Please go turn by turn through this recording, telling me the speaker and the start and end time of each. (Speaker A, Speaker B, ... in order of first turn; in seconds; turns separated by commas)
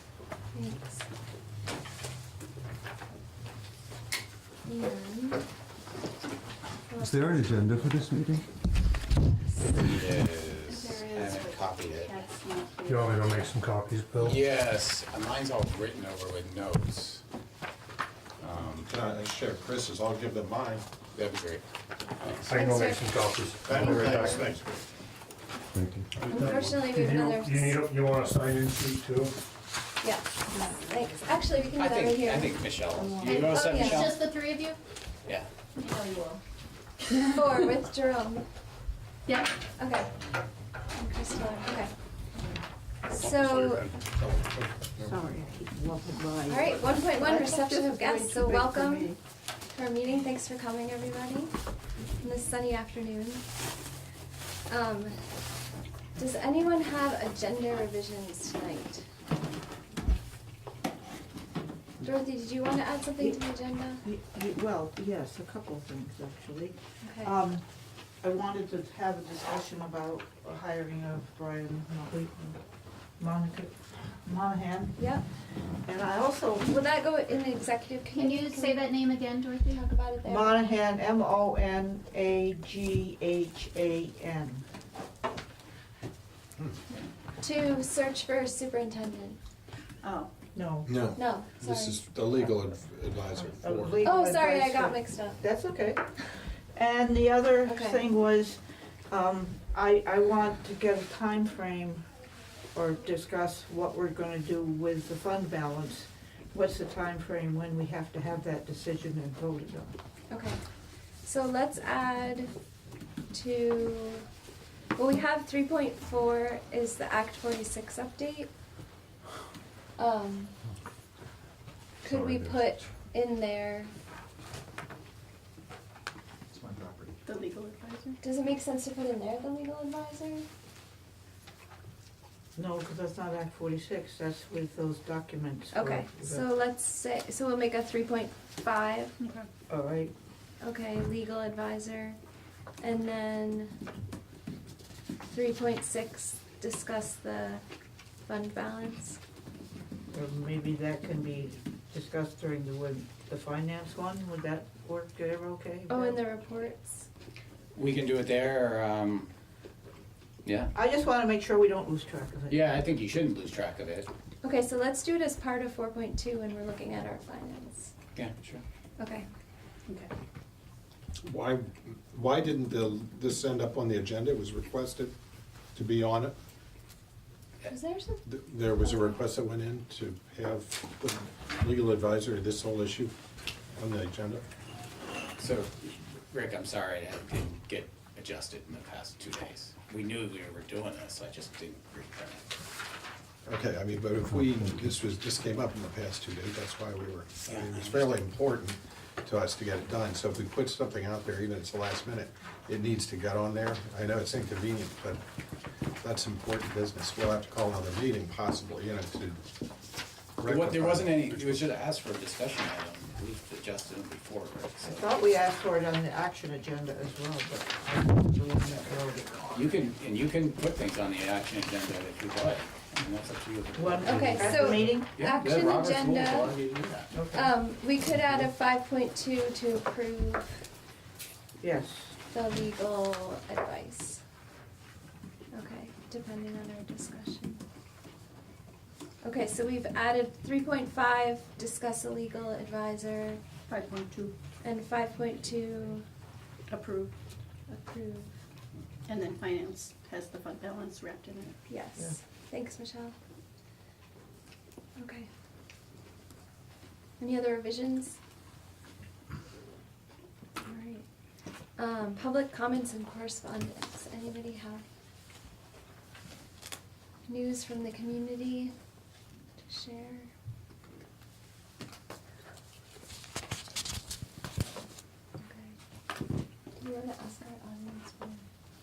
Speaker A: 0.5-1.0, Speaker A: 4.7-5.4, Speaker A: 6.9-7.3, Speaker B: 7.0-8.5, Speaker C: 9.7-12.2, Speaker D: 10.7-13.6, Speaker E: 12.9-14.4, Speaker C: 14.2-17.2, Speaker C: 18.4-18.9, Speaker F: 18.8-20.8, Speaker C: 21.1-21.6, Speaker C: 22.2-22.5, Speaker E: 22.4-24.5, Speaker A: 22.5-24.5, Speaker F: 23.6-24.7, Speaker C: 23.9-24.4, Speaker B: 25.7-26.1, Speaker F: 26.2-26.6, Speaker E: 26.2-29.4, Speaker A: 26.3-27.9, Speaker A: 30.0-32.6, Speaker C: 31.8-34.3, Speaker G: 33.0-33.4, Speaker D: 33.2-34.8, Speaker A: 33.2-34.1, Speaker D: 35.8-36.4, Speaker A: 37.2-38.5, Speaker D: 39.3-39.5, Speaker A: 39.8-40.1, Speaker A: 41.0-41.9, Speaker A: 43.1-43.9, Speaker F: 43.2-45.1, Speaker G: 45.0-49.2, Speaker A: 46.5-49.1, Speaker A: 49.7-51.5, Speaker A: 52.2-53.5, Speaker A: 54.7-55.2, Speaker A: 56.2-59.1, Speaker A: 62.0-64.0, Speaker G: 64.0-67.7, Speaker A: 67.0-67.3, Speaker G: 68.2-72.6, Speaker G: 73.2-75.1, Speaker A: 75.0-75.2, Speaker G: 75.8-76.7, Speaker A: 76.6-78.9, Speaker D: 78.1-79.8, Speaker A: 79.7-80.6, Speaker G: 80.2-84.7, Speaker A: 87.4-89.4, Speaker D: 90.0-90.3, Speaker G: 90.5-91.1, Speaker F: 90.9-94.1, Speaker A: 91.2-92.0, Speaker G: 93.6-96.0, Speaker A: 94.0-95.5, Speaker G: 96.7-102.1, Speaker A: 97.7-98.0, Speaker G: 102.7-110.0, Speaker A: 110.3-110.6, Speaker A: 111.2-112.5, Speaker A: 113.3-114.3, Speaker A: 115.0-118.5, Speaker A: 120.0-120.5, Speaker A: 122.0-123.9, Speaker D: 127.2-128.2, Speaker A: 128.2-130.5, Speaker G: 132.6-136.5, Speaker A: 135.7-139.2, Speaker D: 139.2-139.5, Speaker G: 139.7-140.1, Speaker A: 140.6-142.2, Speaker A: 142.8-143.8, Speaker A: 145.3-147.6, Speaker A: 148.3-149.2, Speaker G: 150.1-156.2, Speaker A: 155.9-157.1, Speaker C: 157.7-159.3, Speaker C: 160.4-160.7, Speaker G: 160.7-162.6, Speaker C: 162.5-164.1, Speaker A: 164.4-167.9, Speaker C: 168.2-168.6, Speaker A: 169.0-169.3, Speaker F: 171.2-175.1, Speaker F: 175.8-176.3, Speaker A: 177.7-179.2, Speaker F: 178.2-183.1, Speaker F: 183.7-184.4, Speaker C: 185.4-192.6, Speaker F: 193.5-205.2, Speaker C: 197.4-198.1, Speaker F: 206.0-209.4, Speaker F: 210.4-211.6, Speaker C: 210.4-215.3, Speaker G: 214.8-219.8, Speaker C: 219.5-227.1, Speaker G: 223.7-225.2, Speaker A: 224.0-226.5, Speaker G: 227.1-227.5, Speaker A: 227.3-230.7, Speaker G: 231.6-232.2, Speaker A: 232.3-234.2, Speaker A: 235.5-237.6, Speaker A: 239.2-243.4, Speaker D: 243.7-244.3, Speaker A: 244.6-246.1, Speaker D: 246.7-247.1, Speaker A: 247.7-248.3, Speaker D: 249.1-251.6, Speaker A: 251.7-253.2, Speaker A: 255.0-255.3, Speaker A: 257.2-258.2, Speaker A: 260.6-261.1, Speaker A: 261.8-264.9, Speaker A: 267.3-268.7, Speaker A: 269.6-270.3, Speaker A: 275.4-275.8, Speaker A: 276.8-278.5